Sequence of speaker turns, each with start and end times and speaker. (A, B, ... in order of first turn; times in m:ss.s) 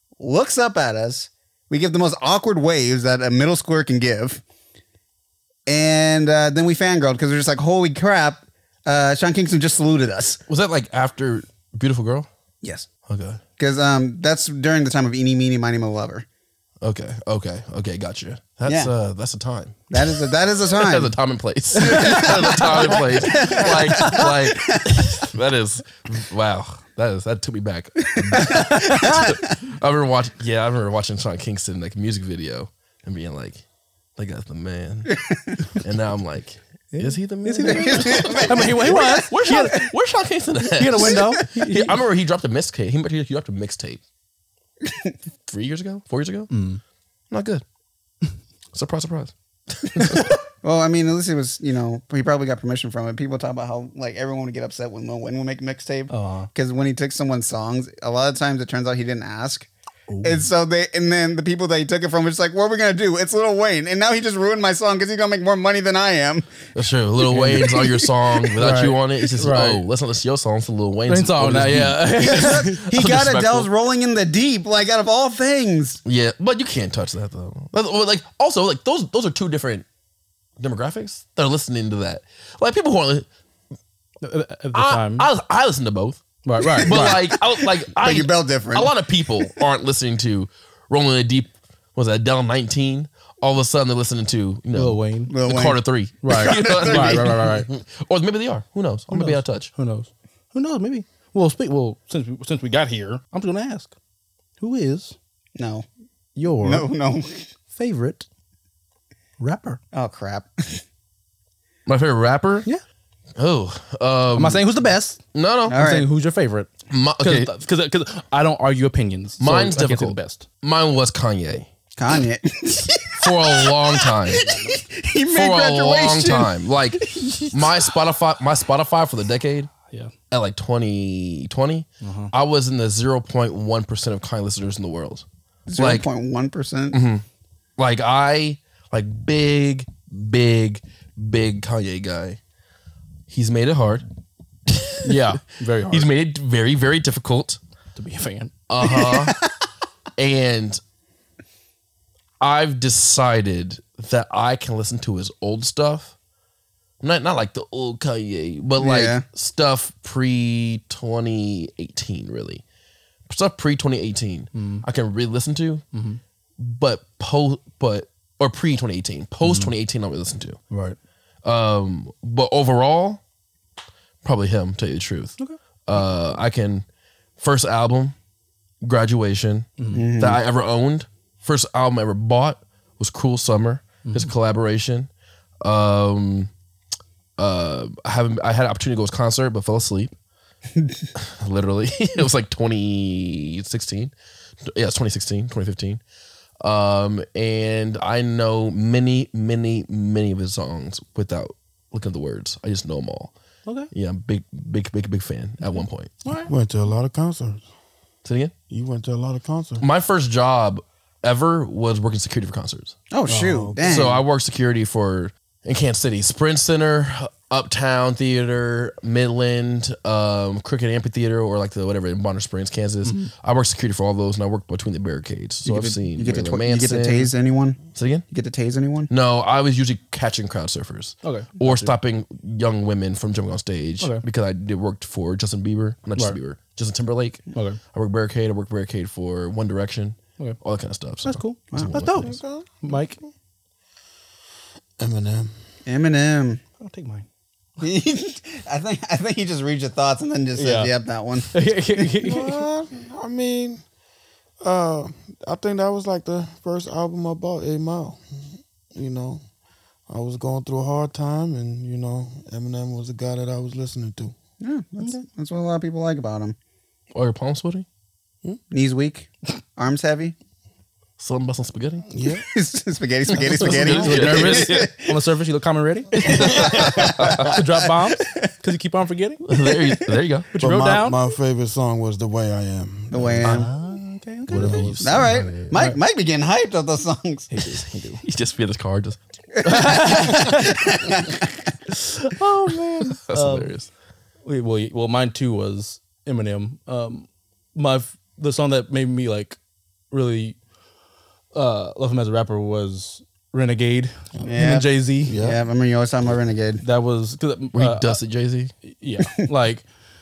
0:00.2-0:04.4 A
0:05.7-0:10.4 A
0:10.5-0:12.3 B
0:12.6-0:12.9 A
0:13.1-0:13.4 B
0:13.6-0:16.2 A
0:16.8-0:33.6 B
0:18.7-0:18.9 A
0:19.9-0:21.1 A
0:21.8-0:24.2 C
0:21.8-0:25.0 A
0:28.1-0:29.4 A
0:28.4-0:29.3 C
0:34.2-0:35.2 B
0:35.7-0:44.0 B
0:36.9-0:39.8 C
0:37.6-0:39.2 A
0:40.8-0:42.0 C
0:45.5-0:46.5 B
0:46.5-0:46.8 C
0:47.3-0:47.6 B
0:48.7-0:50.3 B
0:50.2-0:59.7 A
0:56.1-0:56.5 C
1:00.1-1:00.4 C
1:00.2-1:06.7 A
1:06.8-1:13.7 B
1:07.3-1:07.6 C
1:07.5-1:08.0 A
1:08.6-1:09.8 C
1:11.1-1:12.8 C
1:12.2-1:16.0 A
1:16.0-1:19.9 B
1:20.6-1:23.3 B
1:24.2-1:25.3 C
1:24.7-1:26.2 B
1:26.4-1:27.0 C
1:26.8-1:39.7 B
1:26.8-1:29.0 A
1:34.7-1:35.3 C
1:35.3-1:37.4 A
1:36.2-1:37.7 C
1:39.1-1:43.9 C
1:44.6-1:45.2 C
1:45.6-1:45.8 A
1:46.4-1:46.9 C
1:46.6-1:47.5 A
1:47.7-1:48.3 C
1:49.4-1:49.8 C
1:49.9-1:50.8 A
1:51.9-1:52.7 B
1:53.4-1:54.6 B
1:54.4-2:00.5 C
1:55.3-1:55.8 B
1:55.7-1:56.1 A
1:56.9-1:57.5 B
1:59.4-2:01.7 B
2:02.0-2:07.8 A
2:03.2-2:04.4 B
2:04.5-2:04.8 C
2:05.3-2:09.7 B
2:10.3-2:15.2 B
2:12.0-2:12.3 C
2:15.7-2:17.0 A
2:15.8-2:16.1 B
2:16.9-2:17.2 B
2:17.8-2:22.4 B
2:23.3-2:24.0 B
2:24.7-2:25.2 B
2:25.0-2:26.1 C
2:25.9-2:27.6 B
2:28.0-2:28.9 C
2:28.7-2:29.5 B
2:30.2-2:30.8 B
2:32.4-2:36.1 B
2:37.0-2:42.6 B
2:38.8-2:39.2 A
2:43.3-2:45.8 B
2:44.5-2:44.8 C
2:45.9-2:46.2 C
2:46.6-2:50.6 B
2:49.4-2:49.7 C
2:50.7-2:51.0 C
2:51.4-2:53.2 B
2:54.2-2:56.8 B
2:57.4-2:58.2 B
2:58.8-3:05.1 B
2:59.8-3:00.0 C
2:59.9-3:00.4 A
3:04.0-3:04.3 C
3:05.6-3:06.5 B
3:07.4-3:10.1 B
3:11.2-3:14.1 B
3:14.6-3:16.0 B
3:16.6-3:23.3 B
3:23.9-3:26.1 B
3:26.2-3:26.5 C
3:26.5-3:27.7 D
3:28.2-3:28.5 B
3:28.7-3:29.8 D
3:29.8-3:33.0 B
3:33.1-3:34.2 A
3:33.3-3:34.1 D
3:33.8-3:47.3 B
3:43.0-3:43.3 C
3:45.6-3:49.1 A
3:48.0-3:48.2 B
3:49.1-4:02.4 B
3:51.2-3:51.9 C
3:57.5-3:57.8 C
4:01.2-4:03.2 C
4:02.2-4:03.2 D
4:05.0-4:05.5 D
4:05.9-4:06.6 A
4:06.8-4:07.3 C
4:07.8-4:12.1 A
4:10.6-4:10.9 C
4:11.5-4:12.6 C
4:12.2-4:13.8 D
4:14.6-4:19.4 D
4:20.1-4:24.3 D
4:24.6-4:26.6 A
4:27.1-4:27.9 B
4:28.7-4:30.4 A
4:31.2-4:32.1 B
4:32.1-4:32.5 D
4:32.4-4:35.1 A
4:33.4-4:33.6 D
4:33.5-4:34.9 B
4:33.6-4:39.4 C
4:36.1-4:37.6 B
4:36.6-4:38.5 A
4:39.4-4:40.5 B
4:39.8-4:40.2 A
4:40.5-4:41.2 C
4:40.6-4:43.6 D
4:43.1-4:43.7 A
4:43.4-4:43.7 B
4:43.4-4:45.0 C
4:44.5-4:45.7 B
4:44.5-4:45.6 D
4:45.0-4:47.5 A
4:45.7-4:46.0 C
4:47.5-4:48.2 C
4:48.2-4:50.0 B
4:49.6-4:51.6 A
4:49.6-4:51.0 C
4:51.9-4:53.7 C
4:53.3-4:53.9 B
4:54.4-4:59.6 C
5:00.1-5:00.6 C
5:01.5-5:05.4 C
5:04.4-5:06.8 A
5:05.3-5:05.6 D
5:06.8-5:08.2 C
5:07.8-5:08.7 B
5:08.8-5:09.8 C